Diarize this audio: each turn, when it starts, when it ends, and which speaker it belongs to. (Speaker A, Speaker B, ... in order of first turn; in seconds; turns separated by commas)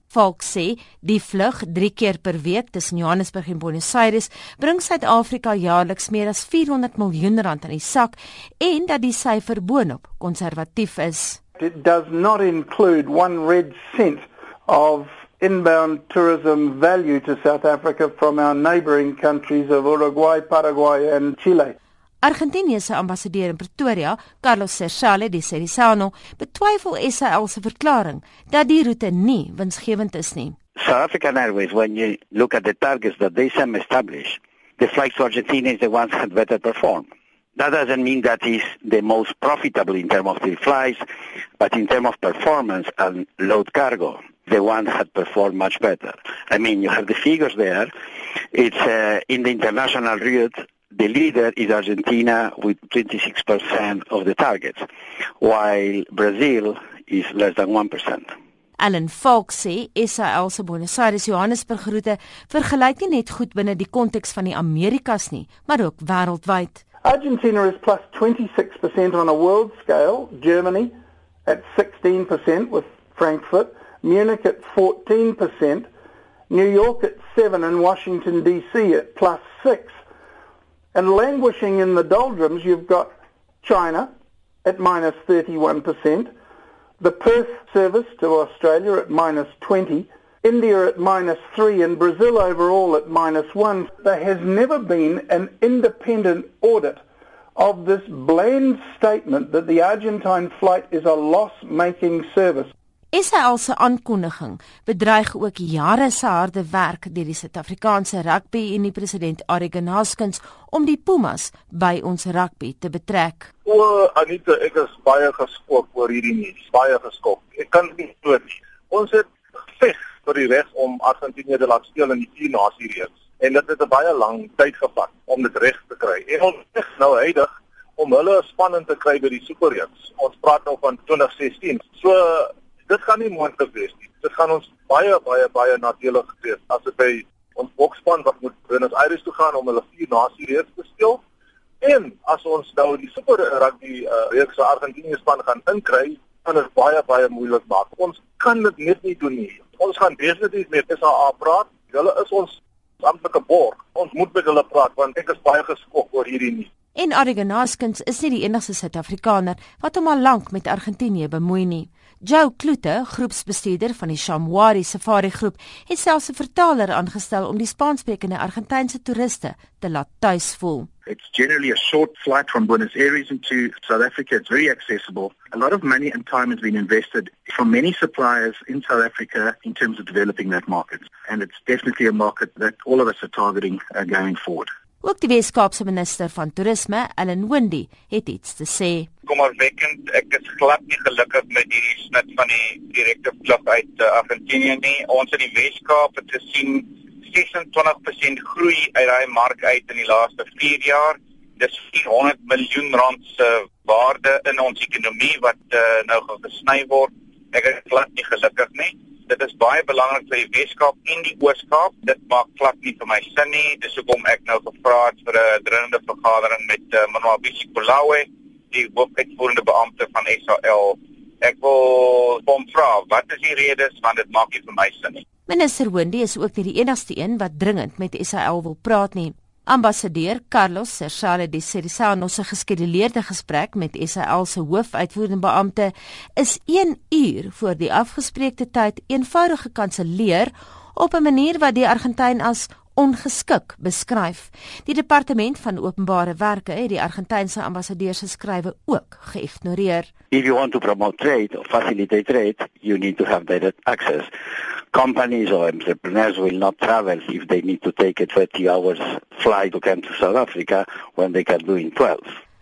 Speaker A: 0.1-11.4, Speaker B: 11.6-21.7, Speaker A: 22.2-30.6, Speaker C: 30.8-41.0, Speaker C: 41.6-47.9, Speaker C: 48.5-54.9, Speaker C: 55.4-58.3, Speaker A: 58.8-66.8, Speaker B: 67.0-70.9, Speaker B: 71.5-75.9, Speaker B: 76.5-80.0, Speaker B: 80.9-83.1, Speaker B: 83.6-84.1, Speaker B: 84.6-86.3, Speaker B: 87.0-97.0, Speaker B: 97.5-102.7, Speaker A: 103.1-113.5, Speaker D: 113.7-141.2, Speaker D: 141.8-156.7, Speaker A: 156.9-170.9, Speaker E: 171.1-184.7, Speaker A: 185.0-189.1, Speaker F: 189.3-225.2, Speaker A: 225.5-250.1, Speaker C: 250.3-254.3, Speaker C: 254.9-262.2